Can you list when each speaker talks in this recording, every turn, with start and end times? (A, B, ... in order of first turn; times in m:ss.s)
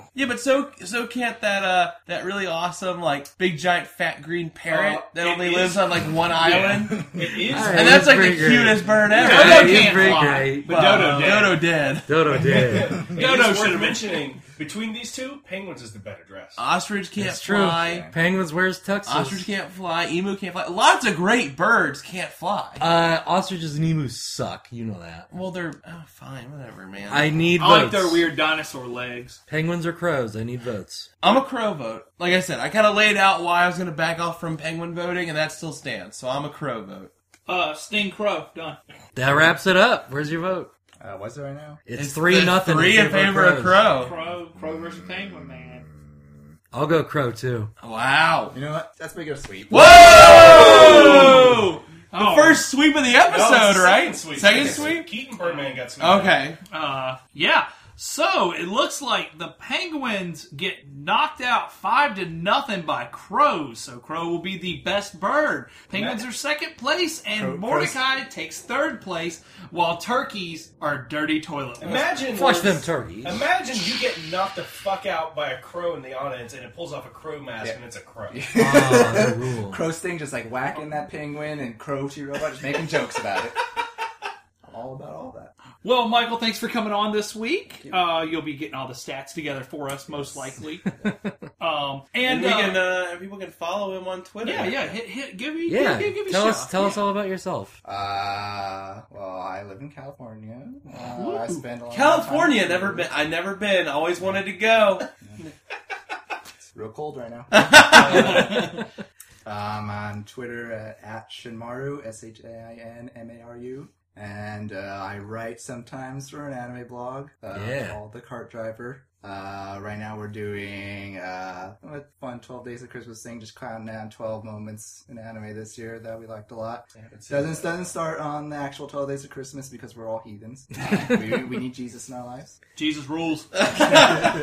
0:00.1-0:12.1 A
0:04.7-0:05.7 B
0:05.0-0:06.9 C
0:06.6-0:08.6 B
0:07.4-0:11.1 D
0:09.1-0:11.6 C
0:10.8-0:11.5 B
0:12.0-0:13.0 D
0:12.3-0:16.6 B
0:13.1-0:14.2 C
0:16.6-0:18.1 A
0:17.2-0:19.5 D
0:17.5-0:18.2 E
0:19.0-0:22.8 A
0:22.8-0:25.3 D
0:25.3-0:27.4 A
0:27.1-0:28.3 D
0:27.6-0:29.4 C
0:29.5-0:31.1 D
0:31.2-0:37.1 A
0:37.5-0:38.8 C
0:39.1-0:40.7 D
0:41.0-0:41.8 E
0:41.8-0:43.9 D
0:42.0-0:44.1 A
0:44.0-0:45.8 C
0:44.1-0:46.6 E
0:46.7-0:47.7 D
0:47.8-0:48.6 A
0:48.5-0:51.2 E
0:49.7-0:55.1 A
0:49.7-0:52.6 C
0:50.6-0:51.0 B
0:53.2-0:56.4 B
0:54.5-0:54.9 E
0:55.4-0:55.8 C
0:56.0-0:56.6 A
0:56.7-1:12.2 C
1:05.9-1:06.2 B
1:07.4-1:08.0 E
1:11.8-1:18.5 B
1:12.3-1:13.4 D
1:18.3-1:23.6 E
1:18.5-1:19.8 D
1:24.6-1:25.5 E
1:25.8-1:30.9 C
1:30.1-1:30.6 E
1:31.0-1:31.4 D
1:31.6-1:32.8 C
1:32.2-1:34.9 A
1:34.4-1:37.0 C
1:35.6-1:37.7 D
1:37.8-1:43.1 E
1:41.1-1:41.6 C
1:41.9-1:45.1 A
1:46.7-1:48.8 E
1:47.6-1:48.2 A
1:47.9-1:48.4 B
1:48.1-1:48.8 C
1:49.4-2:12.6 E
1:57.5-1:58.0 D
2:06.9-2:07.9 B
2:12.8-2:14.2 C